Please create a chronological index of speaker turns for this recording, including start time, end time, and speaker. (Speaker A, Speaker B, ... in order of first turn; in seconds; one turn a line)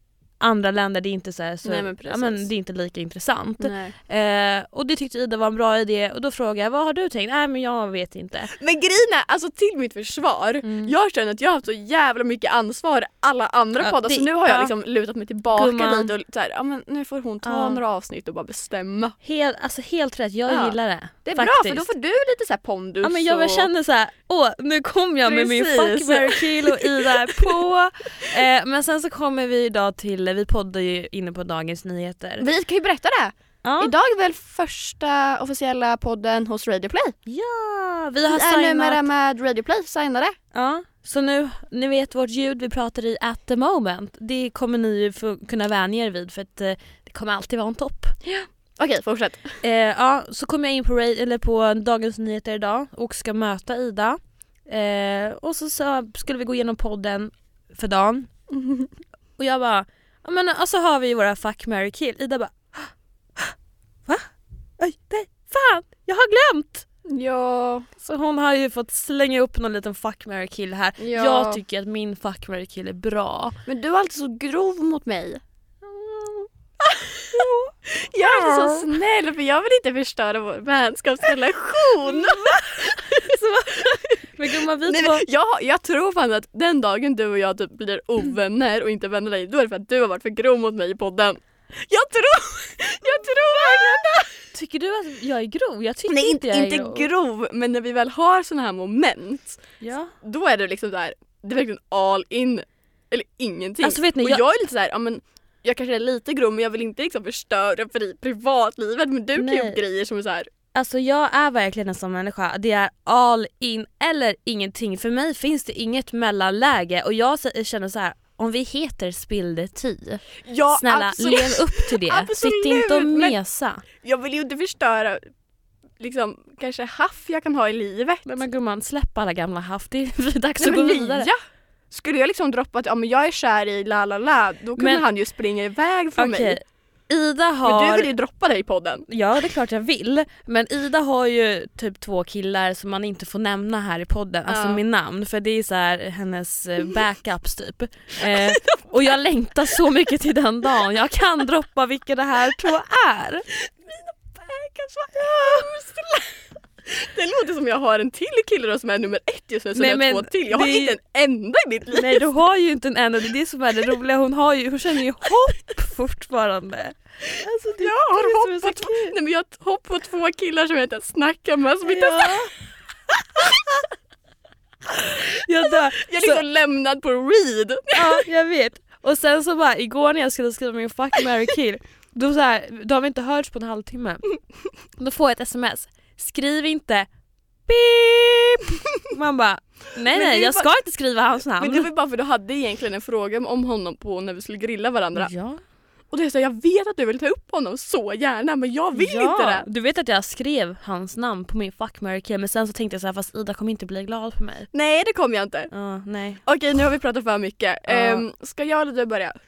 Speaker A: 0.4-8.5
Speaker B: 1.6-2.5
Speaker B: 3.6-3.9
Speaker B: 8.5-19.1
Speaker A: 10.6-10.9
Speaker A: 13.8-14.7
Speaker A: 15.5-16.1
Speaker A: 17.4-17.8
Speaker A: 19.2-21.9
Speaker B: 20.5-23.7
Speaker A: 23.0-32.5
Speaker B: 25.2-27.6
Speaker B: 32.4-37.1
Speaker A: 33.6-33.9
Speaker A: 37.2-39.0
Speaker B: 38.3-40.4
Speaker A: 40.5-48.2
Speaker B: 48.2-49.6
Speaker A: 49.6-58.3
Speaker B: 58.5-58.9
Speaker A: 59.4-63.5
Speaker A: 64.8-66.8
Speaker B: 67.0-67.9
Speaker A: 68.0-73.6
Speaker B: 71.0-71.6
Speaker B: 73.7-75.4
Speaker A: 75.8-76.5
Speaker B: 76.8-94.5
Speaker A: 77.3-78.9
Speaker A: 82.2-85.3
Speaker A: 93.2-93.5
Speaker A: 94.5-97.1
Speaker B: 96.1-99.6
Speaker A: 99.8-100.1
Speaker B: 100.2-110.5
Speaker A: 103.8-104.4
Speaker A: 109.3-109.8
Speaker A: 110.7-123.8
Speaker B: 120.4-123.4
Speaker B: 124.0-125.3
Speaker B: 126.0-128.3
Speaker A: 128.2-131.3
Speaker B: 130.6-131.4
Speaker B: 131.9-136.6
Speaker A: 134.8-135.0
Speaker A: 136.2-138.1
Speaker B: 137.6-139.1
Speaker A: 139.1-153.5
Speaker B: 144.5-144.8
Speaker B: 148.3-149.1
Speaker B: 153.6-162.3
Speaker A: 159.7-161.0
Speaker A: 161.9-169.1
Speaker B: 167.8-172.5
Speaker A: 171.8-172.5
Speaker A: 174.9-176.4
Speaker B: 175.7-178.2
Speaker A: 177.9-184.3
Speaker A: 185.0-187.1
Speaker A: 187.7-191.9
Speaker B: 190.1-190.7
Speaker B: 191.6-195.3
Speaker A: 195.2-195.6
Speaker B: 196.1-199.7
Speaker A: 198.9-204.7
Speaker B: 204.7-205.7
Speaker A: 205.7-206.4
Speaker B: 206.4-209.3
Speaker A: 207.9-208.2